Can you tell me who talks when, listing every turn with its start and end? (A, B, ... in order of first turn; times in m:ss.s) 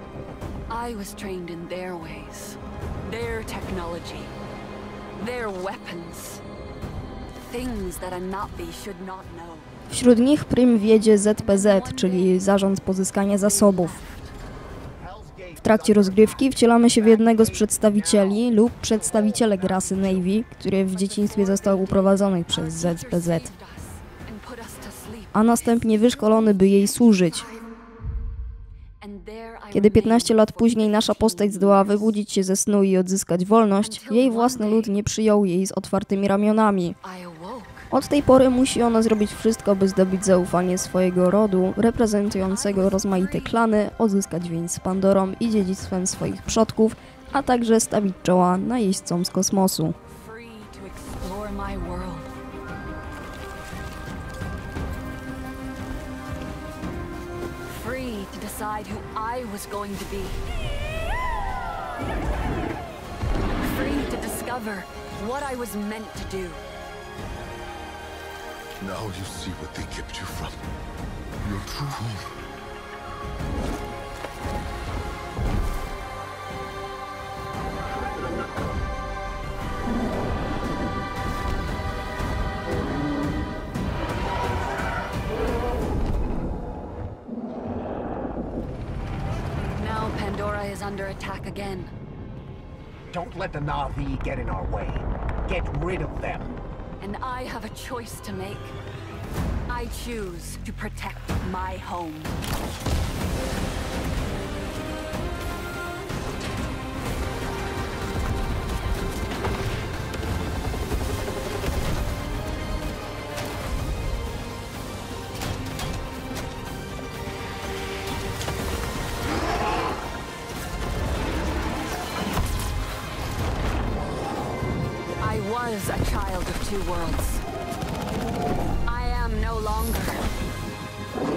0:00.7-0:04.3 A
0:05.2-0:06.4 A
0:07.4-0:09.7 A
0:09.9-0:14.0 B
0:11.4-0:12.4 A
0:13.3-0:14.3 A
0:15.0-0:16.4 C
0:15.6-0:23.5 B
0:17.4-0:18.3 C
0:19.3-0:20.2 C
0:20.9-0:27.7 A
0:25.3-0:27.5 B
0:29.0-0:32.2 A
0:29.7-0:37.0 B
0:33.8-0:35.0 A
0:37.0-0:37.9 A
0:37.9-0:49.9 B
0:42.3-0:43.7 A
0:50.1-0:52.3 A
0:57.6-1:00.4 A
1:03.6-1:06.6 A
1:08.8-1:10.5 D
1:11.4-1:12.1 D
1:29.7-1:31.9 A
1:33.1-1:36.6 C
1:37.0-1:38.7 A
1:39.7-1:42.4 A
2:05.2-2:07.4 A
2:08.8-2:10.3 A